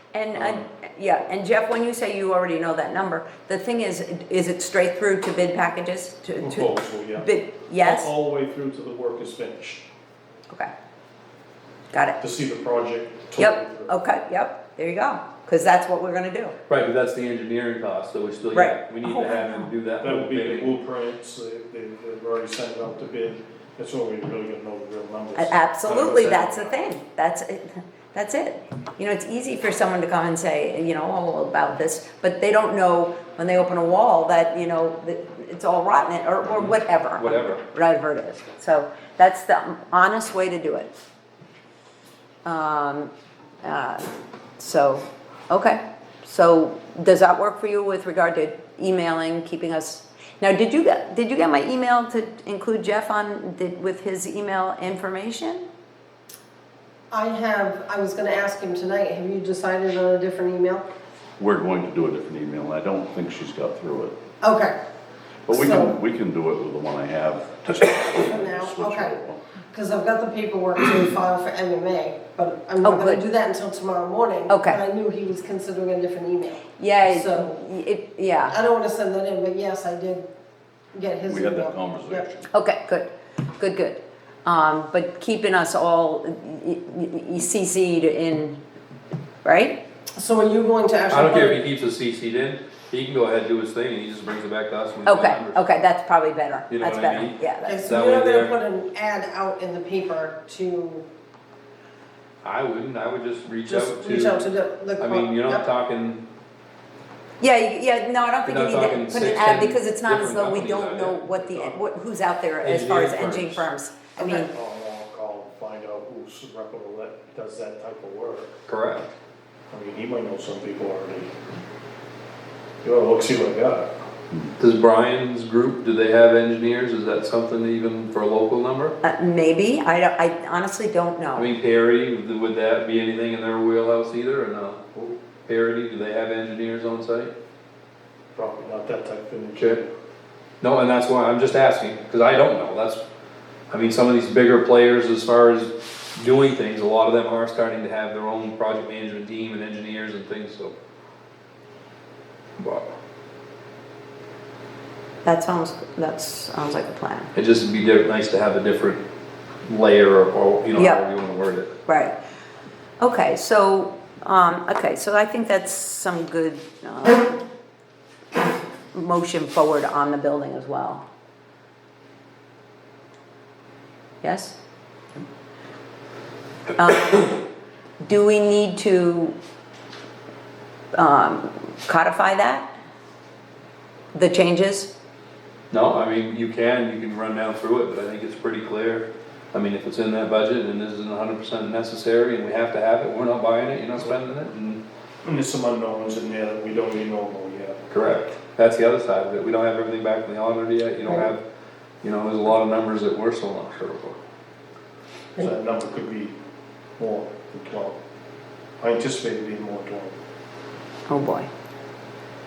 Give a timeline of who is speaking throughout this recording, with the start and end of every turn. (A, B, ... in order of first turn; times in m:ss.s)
0:00.1-0:08.1 A
0:00.4-0:00.6 B
0:06.4-0:09.8 B
0:11.9-0:12.2 A
0:12.2-0:14.0 B
0:13.4-0:16.5 A
0:16.7-0:20.8 C
0:18.5-0:19.7 A
0:20.0-0:25.6 B
0:25.3-0:40.9 A
0:25.8-0:26.6 C
0:36.5-0:37.6 C
0:42.4-0:43.1 A
0:43.6-0:44.0 A
0:44.6-0:55.6 A
0:57.1-1:00.8 D
1:01.4-1:04.1 E
1:04.4-1:04.8 D
1:05.5-1:09.4 E
1:05.5-1:06.0 D
1:08.0-1:09.1 D
1:09.7-1:17.6 D
1:12.8-1:13.2 A
1:14.5-1:14.8 A
1:16.8-1:18.6 A
1:18.5-1:20.2 D
1:20.9-1:22.3 D
1:21.3-1:22.5 E
1:22.5-1:28.6 A
1:29.4-1:29.8 A
1:30.2-1:31.6 D
1:31.1-1:35.6 C
1:35.0-1:37.8 A
1:36.7-1:38.6 C
1:37.6-1:41.0 D
1:42.4-1:44.4 C
1:43.7-1:45.6 D
1:45.0-1:46.2 C
1:47.4-1:54.5 A
1:48.4-1:51.3 C
1:51.3-1:51.8 B
1:52.6-1:53.6 C
1:54.3-1:58.5 B
1:58.7-1:59.1 C
1:59.7-2:01.3 B
2:02.8-2:03.9 B
2:04.6-2:08.9 C
2:09.0-2:11.5 A
2:11.4-2:14.8 C
2:15.4-2:17.3 C
2:18.3-2:19.9 B
2:20.6-2:23.0 C
2:23.7-2:30.7 C
2:32.6-2:32.9 C
2:35.2-2:37.3 A
2:37.3-2:39.0 C
2:39.6-2:41.7 C
2:40.8-2:41.0 A
2:41.9-2:42.2 A
2:43.0-2:47.4 A
2:48.9-2:51.0 A
2:54.2-2:54.6 A
2:56.8-2:57.4 A
2:58.0-2:59.3 A
3:00.9-3:02.7 A
3:04.1-3:04.9 A
3:05.7-3:14.8 C
3:15.2-3:17.8 B
3:17.9-3:21.4 C
3:22.0-3:24.2 C
3:25.4-3:26.3 B
3:27.0-3:28.0 B
3:28.8-3:30.1 B
3:31.1-3:31.5 A